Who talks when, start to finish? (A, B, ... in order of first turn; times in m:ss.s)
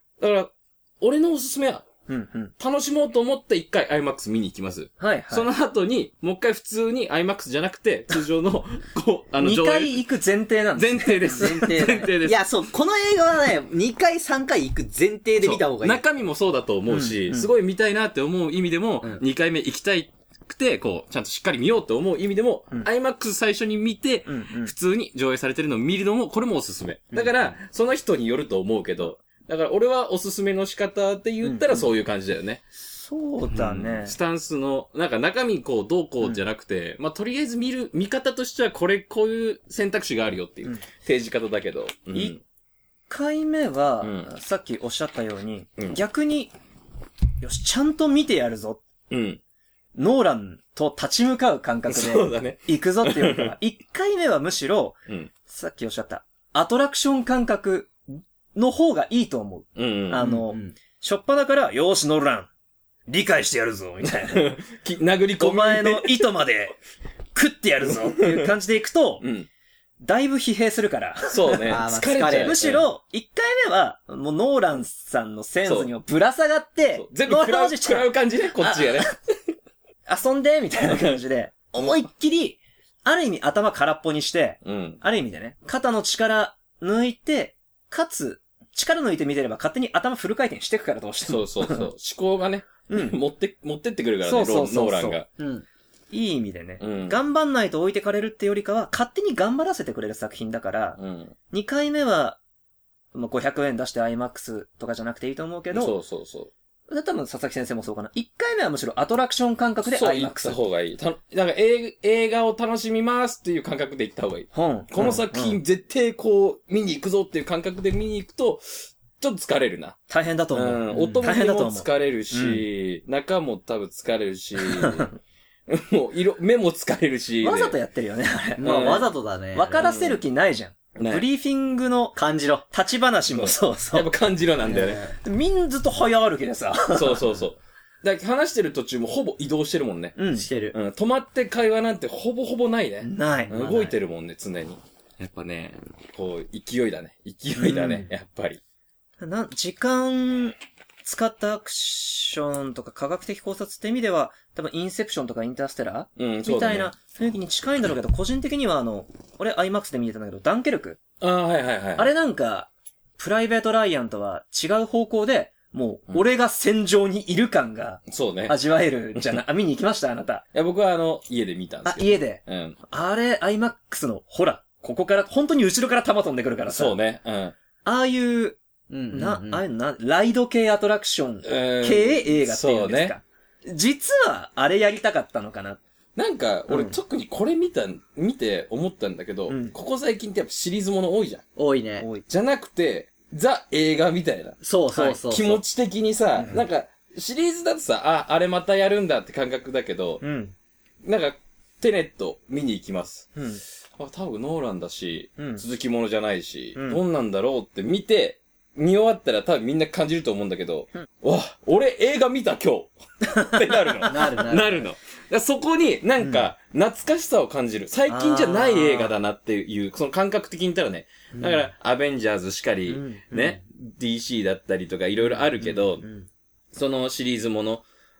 0:00.2-0:01.8 A
0:02.1-0:02.5 B
0:02.6-0:10.0 A
0:05.0-0:05.5 B
0:09.4-0:11.8 B
0:10.8-0:12.4 A
0:11.3-0:16.0 C
0:15.4-0:32.6 A
0:16.9-0:17.5 B
0:24.2-0:24.7 B
0:31.4-0:31.9 B
0:32.9-0:34.2 B
0:33.5-0:42.4 A
0:43.1-0:46.5 B
0:44.0-0:44.3 A
0:47.4-0:48.8 B
0:49.1-0:49.4 A
0:50.0-1:02.5 B
0:51.9-0:53.5 A
0:59.8-1:00.3 A
1:00.2-1:00.7 C
1:03.1-1:04.5 B
1:04.3-1:06.3 A
1:05.4-1:06.8 B
1:07.3-1:09.2 B
1:07.9-1:08.5 A
1:09.2-1:09.5 A
1:10.0-1:11.8 B
1:11.3-1:12.8 A
1:11.7-1:12.6 C
1:12.4-1:19.1 B
1:15.6-1:15.9 A
1:17.0-1:19.2 A
1:20.1-1:31.9 B
1:20.8-1:21.2 A
1:24.6-1:25.0 A
1:31.2-1:35.3 A
1:32.9-1:33.2 B
1:34.2-1:35.2 B
1:35.4-1:35.6 C
1:36.1-1:41.0 B
1:36.8-1:37.2 A
1:41.0-1:41.3 A
1:41.5-1:42.4 B
1:43.1-1:45.9 B
1:45.7-1:46.5 A
1:46.9-1:50.6 B
1:49.8-2:00.0 A
1:54.5-1:55.6 B
2:00.1-2:02.6 B
2:00.5-2:05.1 A
2:04.6-2:05.2 B
2:05.7-2:07.7 A
2:07.4-2:12.2 B
2:08.6-2:09.9 C
2:08.6-2:09.0 A
2:09.8-2:10.2 A
2:11.0-2:11.2 A
2:12.1-2:12.7 C
2:12.7-2:14.1 B
2:13.3-2:15.1 A
2:14.6-2:15.1 C
2:15.1-2:17.2 B
2:16.9-2:20.2 A
2:20.2-2:20.5 B
2:20.3-2:20.8 C
2:20.7-2:28.6 A
2:23.0-2:23.6 B
2:23.5-2:23.9 C
2:27.6-2:28.1 B
2:29.2-2:41.0 B
2:36.2-2:36.9 A
2:41.2-2:42.1 A
2:42.0-2:50.4 B
2:48.1-2:48.6 A
2:50.5-2:52.8 A
2:51.9-2:57.0 B
2:56.7-2:57.5 A
2:57.8-2:58.6 B
2:58.9-2:59.6 C
2:59.1-3:05.8 B
3:01.4-3:03.1 A
3:06.2-3:11.4 A
3:06.7-3:07.0 B
3:09.5-3:09.7 B
3:11.6-3:12.0 C
3:12.0-3:12.2 B
3:12.3-3:20.2 A
3:14.6-3:15.6 C
3:16.4-3:16.6 B
3:20.2-3:20.5 B
3:21.0-3:23.4 A
3:23.4-3:23.6 B
3:24.0-3:46.0 A
3:25.4-3:25.6 B
3:26.8-3:27.0 B
3:33.4-3:33.9 B
3:34.0-3:34.9 C
3:36.2-3:36.5 B
3:38.1-3:39.1 B
3:41.3-3:41.7 B
3:42.9-3:43.6 B
3:45.2-3:46.3 B
3:46.7-3:47.8 A